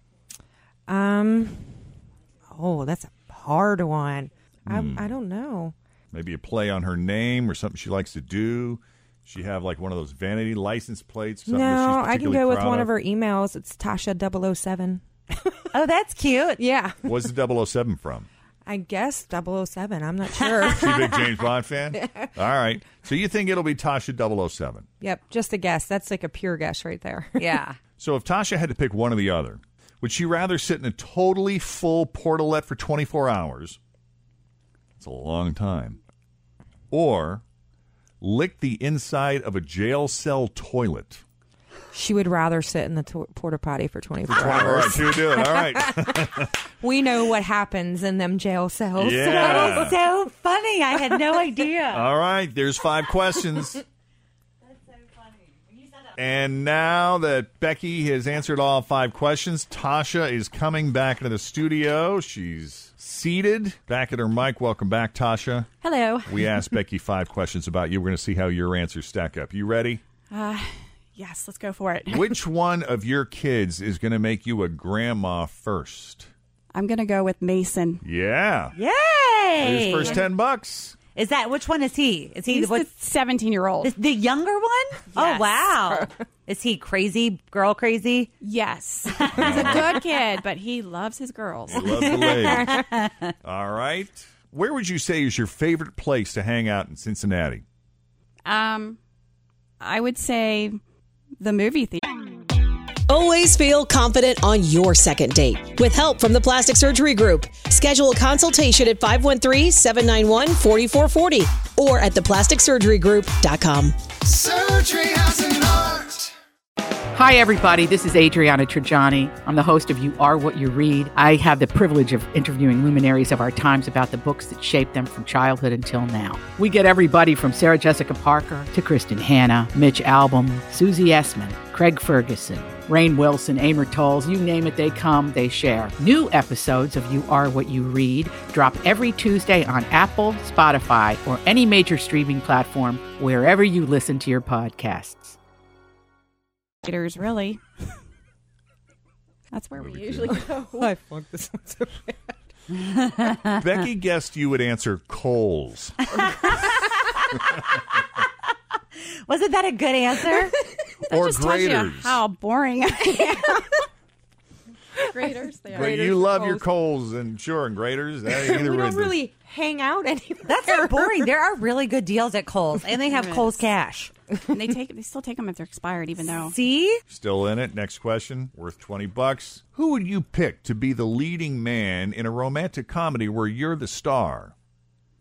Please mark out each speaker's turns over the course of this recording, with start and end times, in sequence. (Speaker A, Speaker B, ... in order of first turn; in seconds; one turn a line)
Speaker A: 0.9-1.7
Speaker A: 2.5-5.7
Speaker B: 4.7-5.1
Speaker B: 6.1-12.9
Speaker A: 11.5-15.0
Speaker C: 15.7-16.6
Speaker A: 16.6-17.0
Speaker B: 17.0-18.3
Speaker A: 18.6-21.2
Speaker B: 20.6-24.9
Speaker A: 21.9-22.3
Speaker A: 25.0-27.6
Speaker C: 27.4-27.8
Speaker B: 28.0-33.8
Speaker B: 35.0-36.0
Speaker B: 36.9-37.4
Speaker B: 38.2-41.2
Speaker A: 41.9-46.2
Speaker B: 44.3-46.5
Speaker A: 46.8-49.8
Speaker B: 49.0-50.0
Speaker C: 49.3-52.1
Speaker B: 51.9-53.8
Speaker B: 56.1-65.7
Speaker D: 65.8-66.6
Speaker B: 66.3-70.0
Speaker D: 70.3-72.3
Speaker B: 72.1-76.3
Speaker D: 76.7-78.0
Speaker B: 78.0-78.7
Speaker C: 78.7-80.2
Speaker B: 79.6-81.0
Speaker C: 81.1-82.9
Speaker D: 82.5-83.9
Speaker C: 83.8-88.3
Speaker D: 85.1-85.6
Speaker D: 88.4-92.2
Speaker C: 89.1-89.8
Speaker B: 89.3-90.0
Speaker B: 91.7-92.7
Speaker A: 91.8-92.2
Speaker C: 92.7-93.1
Speaker B: 93.4-97.6
Speaker D: 98.5-99.0
Speaker D: 99.8-100.8
Speaker D: 101.4-102.1
Speaker E: 103.1-113.9
Speaker F: 114.2-116.3
Speaker G: 117.1-145.3
Speaker D: 146.8-147.6
Speaker D: 149.5-150.9
Speaker B: 149.8-150.4
Speaker A: 150.3-152.3
Speaker B: 153.6-155.9
Speaker C: 159.2-160.5
Speaker D: 161.1-163.7
Speaker B: 161.1-162.2
Speaker D: 165.1-165.9
Speaker A: 165.7-166.7
Speaker B: 165.7-169.2
Speaker A: 168.3-171.2
Speaker C: 170.5-174.1
Speaker D: 173.1-173.6
Speaker D: 174.5-176.6
Speaker C: 176.2-177.0
Speaker B: 177.1-184.5